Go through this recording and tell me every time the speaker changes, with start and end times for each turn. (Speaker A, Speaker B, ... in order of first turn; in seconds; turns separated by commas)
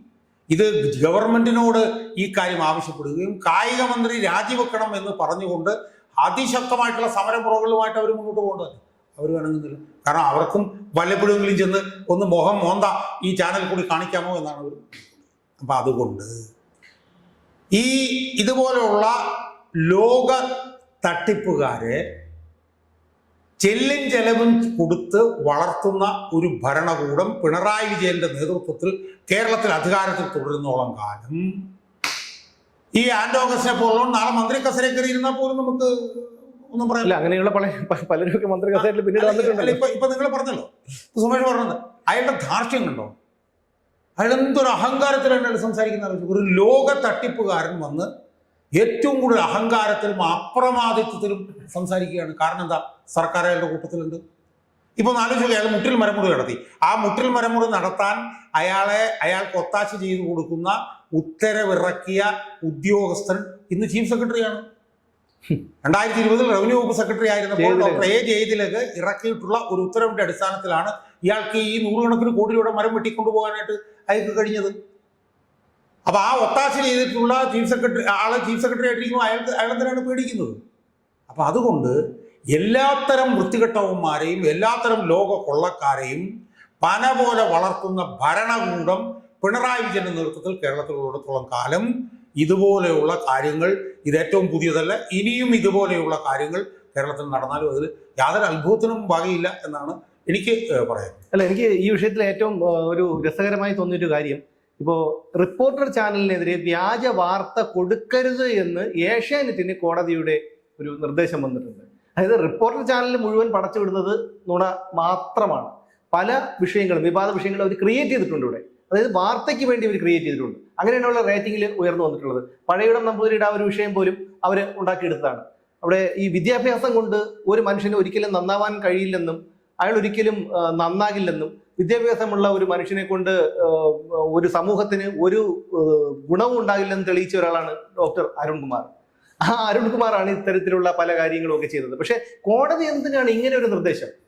Speaker A: 0.5-16.4, Speaker A: 17.7-19.2, Speaker A: 19.8-20.4, Speaker A: 21.0-22.0, Speaker A: 23.6-31.4, Speaker A: 33.0-37.1, Speaker B: 37.0-39.8, Speaker A: 38.8-43.1, Speaker A: 44.2-48.1, Speaker A: 48.8-54.2, Speaker A: 55.0-64.6, Speaker A: 65.8-74.7, Speaker B: 67.6-68.1, Speaker A: 76.1-80.6, Speaker A: 81.3-82.0, Speaker A: 82.5-86.3, Speaker A: 86.8-91.9, Speaker A: 92.4-101.2, Speaker B: 101.3-138.9, Speaker B: 139.4-144.1